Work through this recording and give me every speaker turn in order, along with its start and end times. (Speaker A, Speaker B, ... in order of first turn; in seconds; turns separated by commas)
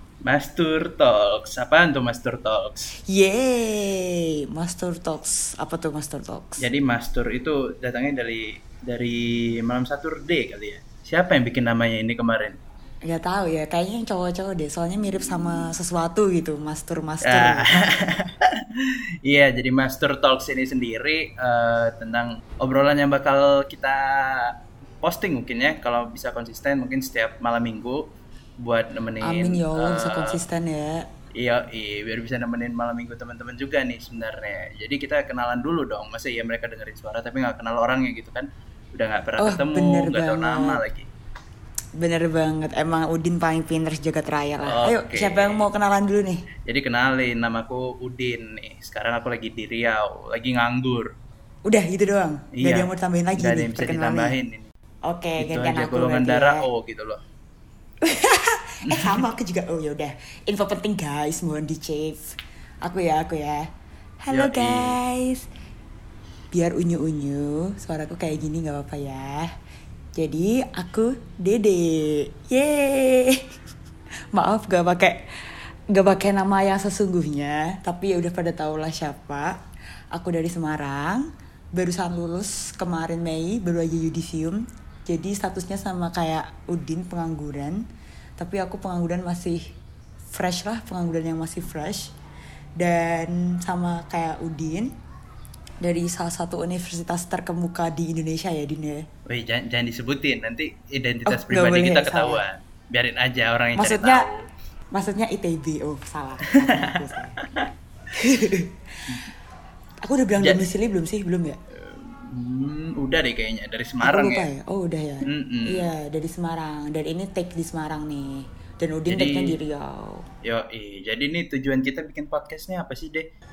Speaker A: 0.2-2.9, Speaker B: 3.1-6.7, Speaker A: 6.6-12.6, Speaker B: 13.0-17.7, Speaker A: 17.2-30.4, Speaker B: 29.2-31.1, Speaker A: 31.3-41.1, Speaker B: 39.4-40.8, Speaker B: 42.0-46.5, Speaker A: 44.6-45.6, Speaker A: 46.6-51.1, Speaker B: 51.6-54.4, Speaker A: 52.5-54.7, Speaker B: 55.1-56.6, Speaker A: 55.4-57.2, Speaker B: 58.0-63.6, Speaker A: 58.9-59.2, Speaker B: 64.2-65.5, Speaker A: 64.3-65.0, Speaker B: 66.5-69.5, Speaker B: 70.1-73.4, Speaker B: 74.3-79.5, Speaker B: 80.1-87.8, Speaker B: 88.4-89.7, Speaker B: 90.3-92.1, Speaker B: 92.8-94.9, Speaker B: 95.8-99.0, Speaker A: 99.2-104.4, Speaker B: 101.3-102.4, Speaker B: 103.8-104.3, Speaker B: 104.9-107.4, Speaker A: 106.7-107.7, Speaker B: 108.1-109.2, Speaker B: 110.0-111.6, Speaker A: 110.4-110.7, Speaker A: 111.7-114.5, Speaker B: 114.0-120.2, Speaker A: 115.2-115.9, Speaker A: 119.1-119.5, Speaker A: 120.4-123.3